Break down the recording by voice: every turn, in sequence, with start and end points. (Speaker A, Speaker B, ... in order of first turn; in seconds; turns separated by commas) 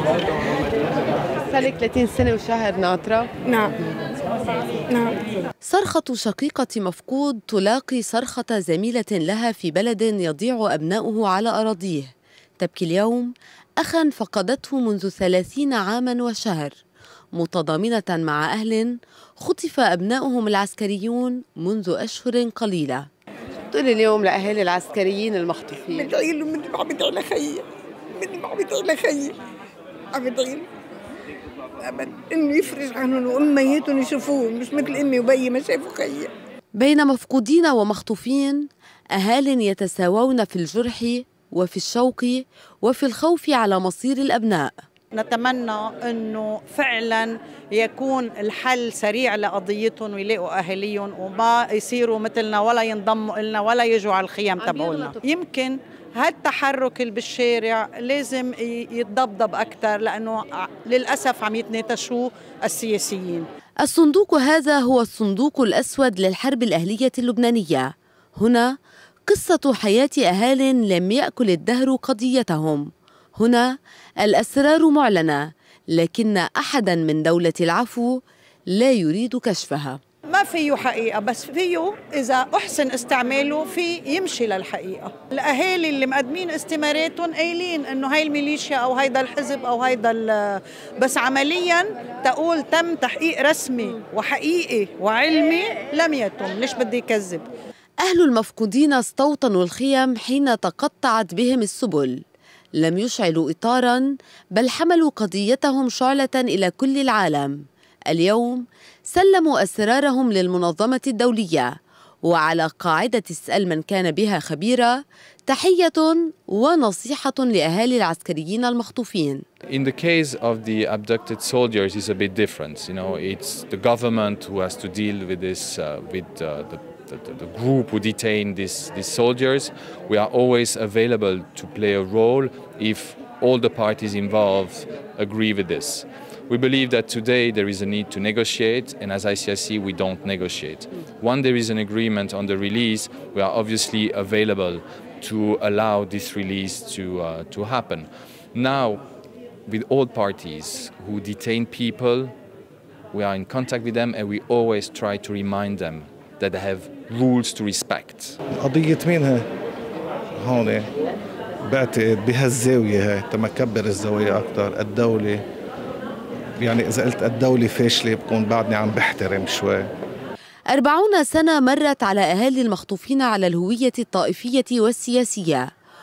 Speaker A: 1.5-3.3, Speaker B: 4.9-5.2, Speaker A: 5.6-16.8, Speaker A: 17.4-23.1, Speaker A: 23.7-26.0, Speaker B: 25.9-29.4, Speaker B: 30.1-30.7, Speaker B: 31.8-36.3, Speaker A: 36.7-44.7, Speaker C: 45.1-63.5, Speaker A: 63.8-68.7, Speaker A: 69.3-80.0, Speaker C: 80.3-97.4, Speaker A: 98.0-102.2, Speaker A: 102.8-119.4, Speaker D: 119.7-149.0, Speaker D: 149.7-152.3, Speaker D: 153.1-158.4, Speaker E: 158.5-159.5, Speaker E: 160.4-160.9, Speaker E: 161.7-165.4, Speaker E: 166.6-169.9, Speaker A: 170.7-175.7